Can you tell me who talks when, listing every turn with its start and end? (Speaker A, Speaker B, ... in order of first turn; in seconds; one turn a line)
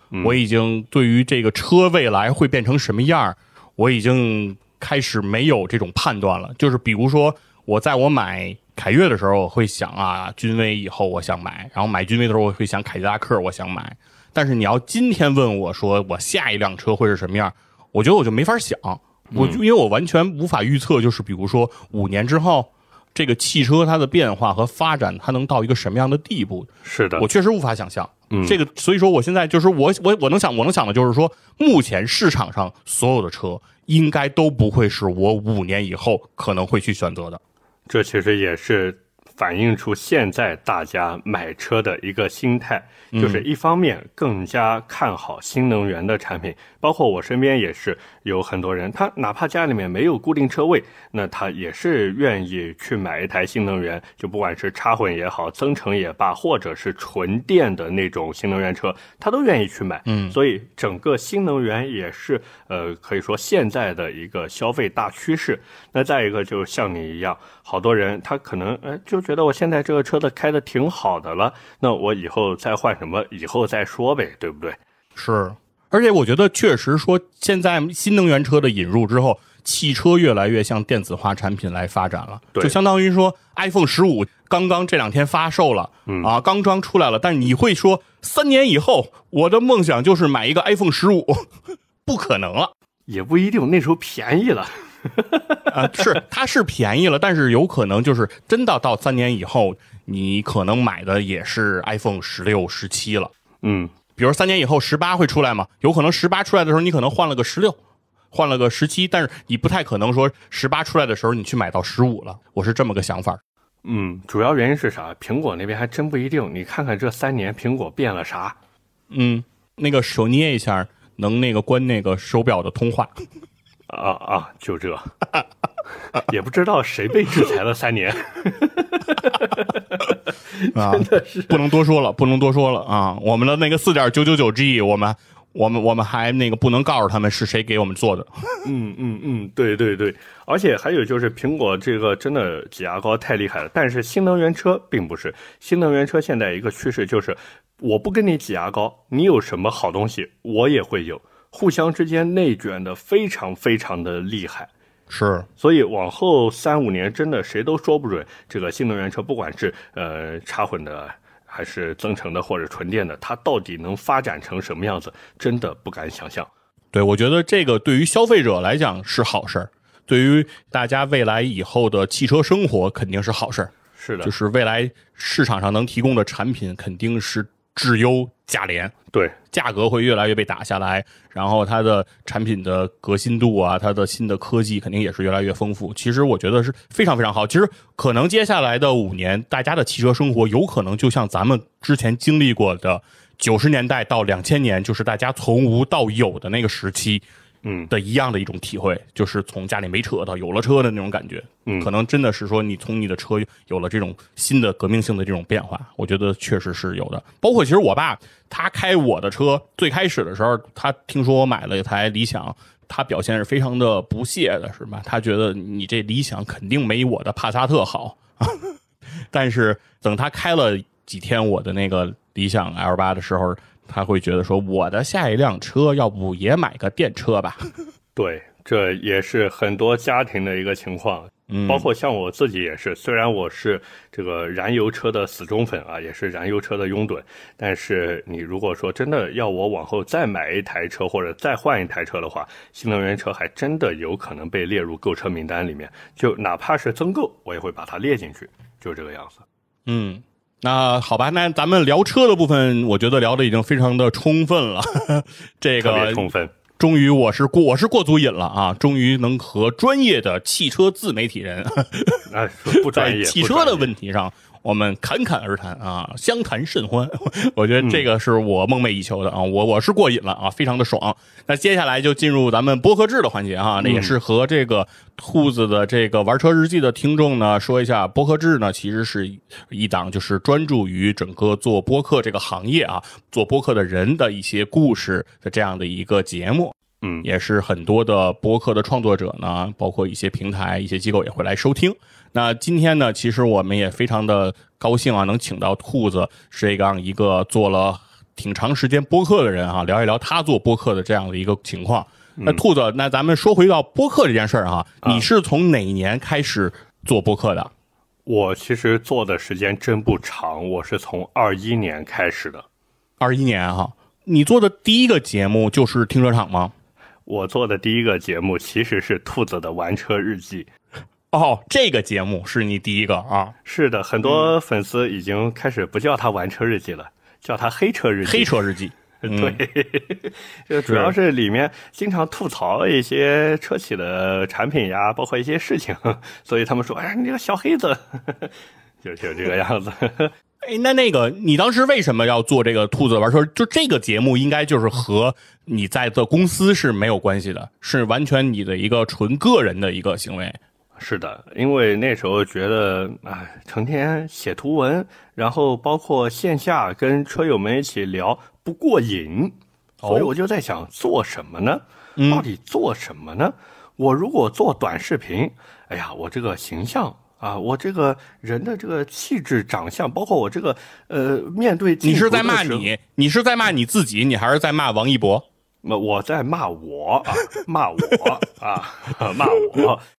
Speaker A: 0.1-0.4
Speaker B: 0.2-37.4
Speaker A: 19.3-19.6
Speaker A: 26.8-27.2
Speaker A: 28.3-28.6
Speaker A: 37.9-74.8
Speaker B: 43.1-43.4
Speaker B: 60.0-60.4
Speaker B: 75.2-91.5
Speaker A: 86.1-86.3
Speaker B: 92.0-92.7
Speaker A: 93.1-96.1
Speaker B: 95.7-103.3
Speaker A: 103.6-103.9
Speaker B: 104.2-107.8
Speaker B: 108.3-113.4
Speaker A: 113.8-118.5
Speaker B: 119.1-123.2
Speaker A: 123.9-125.1
Speaker A: 126.1-131.7
Speaker B: 130.7-138.4
Speaker A: 138.6-154.7
Speaker B: 155.1-155.5
Speaker A: 155.6-166.5
Speaker B: 166.9-178.9
Speaker A: 174.0-174.3
Speaker B: 179.5-197.2
Speaker A: 197.6-197.9
Speaker B: 197.9-218.8
Speaker A: 201.7-201.9
Speaker B: 219.3-227.7
Speaker A: 228.2-249.4
Speaker B: 231.5-231.9
Speaker B: 249.8-307.7
Speaker A: 255.8-256.5
Speaker A: 262.3-263.9
Speaker A: 267.8-268.1
Speaker A: 273.8-274.1
Speaker A: 287.0-287.3
Speaker A: 302.4-302.6
Speaker A: 308.2-312.6
Speaker B: 313.2-316.7
Speaker A: 317.3-320.7
Speaker B: 321.3-323.5
Speaker A: 323.6-328.6
Speaker B: 324.2-324.5
Speaker B: 328.2-329.6
Speaker A: 329.2-340.3
Speaker B: 330.8-331.1
Speaker B: 340.6-350.6
Speaker A: 351.0-372.9
Speaker B: 360.0-360.3
Speaker B: 362.2-362.4
Speaker B: 372.0-375.4
Speaker A: 375.8-380.0